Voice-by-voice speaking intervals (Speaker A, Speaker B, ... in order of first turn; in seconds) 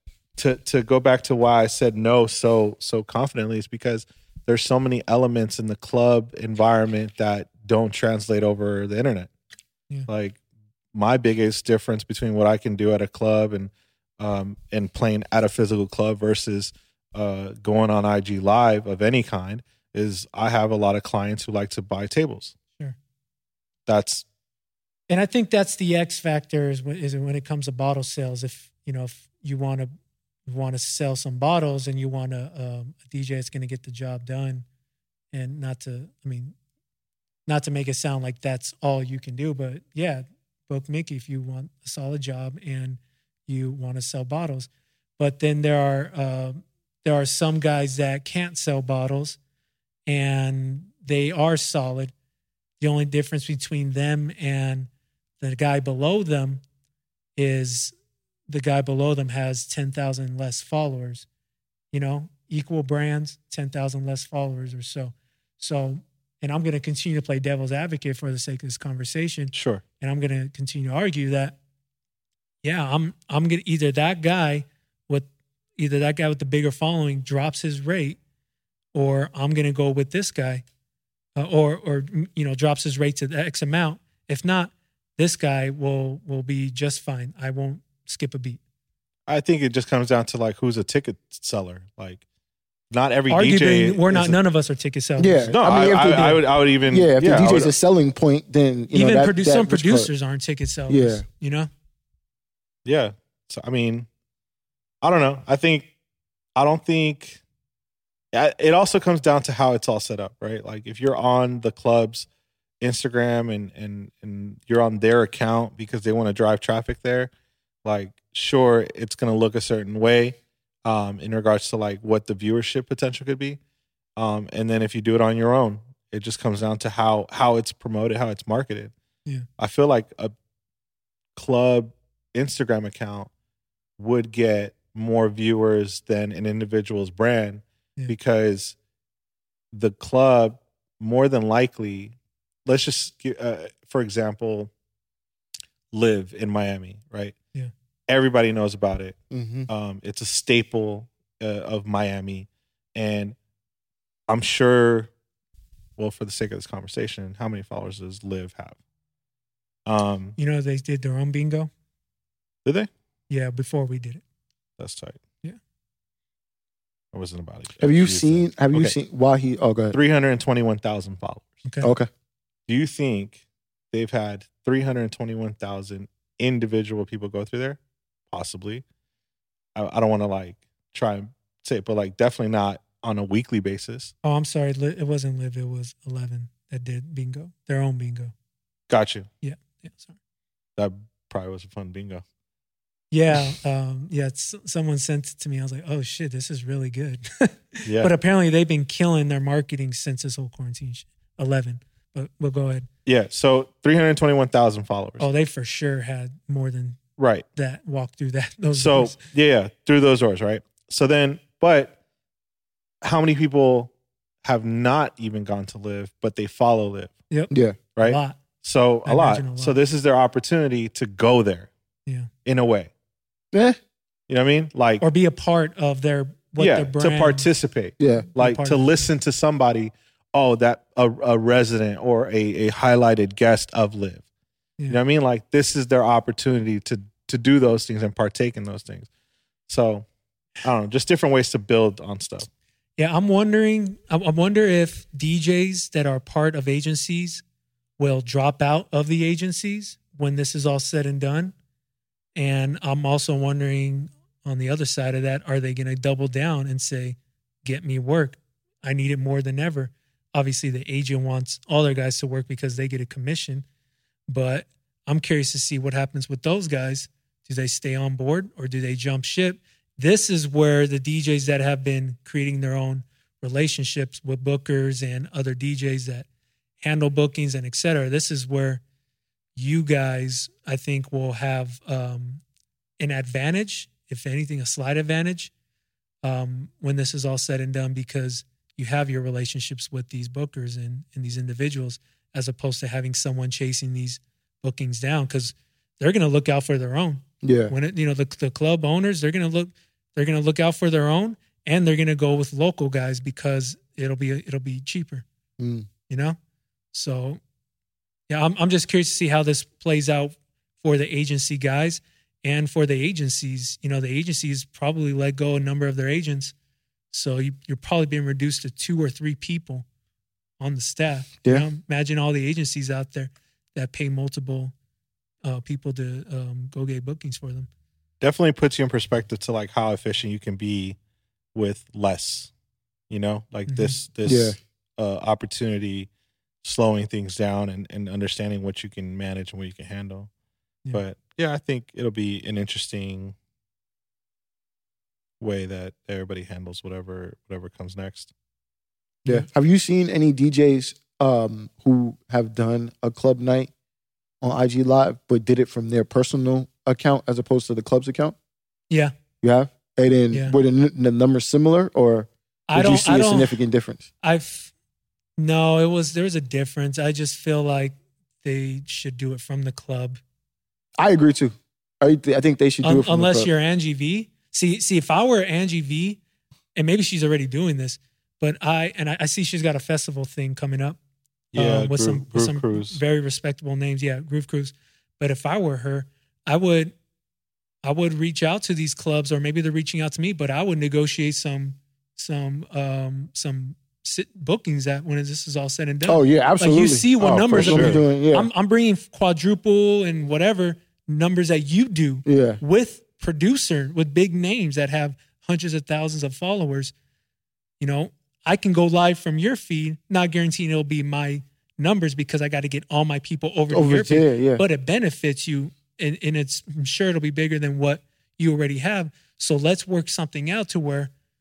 Speaker A: 0.4-9.3, 10.1-10.4, 10.9-22.5, 23.9-24.2, 69.5-69.8, 89.3-92.2, 92.9-94.4, 95.5-97.7, 102.8-104.1, 105.0-105.9, 106.6-107.4, 108.3-112.3, 112.8-117.3, 117.8-123.6, 124.2-128.9, 129.6-130.3, 131.4-133.3, 134.0-138.8, 139.7-142.1, 142.7-144.7, 145.9-147.3, 148.1-149.2, 149.7-153.4, 154.3-155.1, 156.0-158.8, 159.9-160.4, 164.8-165.2, 167.1-168.9, 169.9-171.6, 172.7-173.4, 173.9-177.8, 178.3-178.8, 179.8-184.1, 188.9-189.3, 190.8-192.2, 197.9-198.1, 203.1-205.3, 207.2-207.5, 208.7-211.9, 213.0-213.9, 214.4-217.1, 218.0-221.7, 222.4-222.9, 224.3-225.0, 226.6-234.2, 234.9-239.1, 239.7-240.1, 240.6-242.5, 328.2-331.0, 331.5-332.5, 333.1-336.1, 336.6-340.3, 340.9-343.4, 345.4-348.3, 381.5-383.0, 397.4-398.0
Speaker B: 25.1-29.9, 30.5-34.6, 35.3-36.5, 37.5-49.4, 50.1-52.1, 52.8-54.9, 55.4-56.6, 57.4-57.9, 58.5-61.3, 61.9-71.6, 72.6-78.2, 78.9-80.6, 81.4-88.6, 93.3-96.3, 98.9-101.7, 160.4-161.7, 163.3-164.2, 171.7-171.9, 184.2-188.3, 189.4-190.2, 193.1-202.9, 205.2-207.0, 207.6-209.2, 217.3-218.4, 219.1-219.8, 225.0-227.5, 228.4-228.9, 243.0-247.4, 248.0-251.5, 252.4-263.6, 264.3-276.3, 276.8-278.8, 279.6-282.4, 283.0-285.5, 286.2-305.2, 306.1-306.4, 306.9-307.4, 308.3-316.5, 317.1-319.9, 320.6-324.7, 325.4-327.7, 333.7-334.0, 362.7-363.6, 364.2-364.7, 365.4-370.2, 372.8-376.2, 376.8-381.0, 381.6-386.9, 387.8-406.9, 407.8-421.1
Speaker C: 95.2-100.1, 100.9-101.2, 149.3-149.7, 167.8-170.0, 171.8-172.1, 217.5-217.8, 223.5-223.8, 228.0-228.3, 297.4-297.7, 305.6-305.9, 334.2-334.6, 349.2-353.7, 354.4-358.4, 359.4-364.1, 371.0-373.5, 396.1-398.5, 402.3-402.6, 413.7-414.6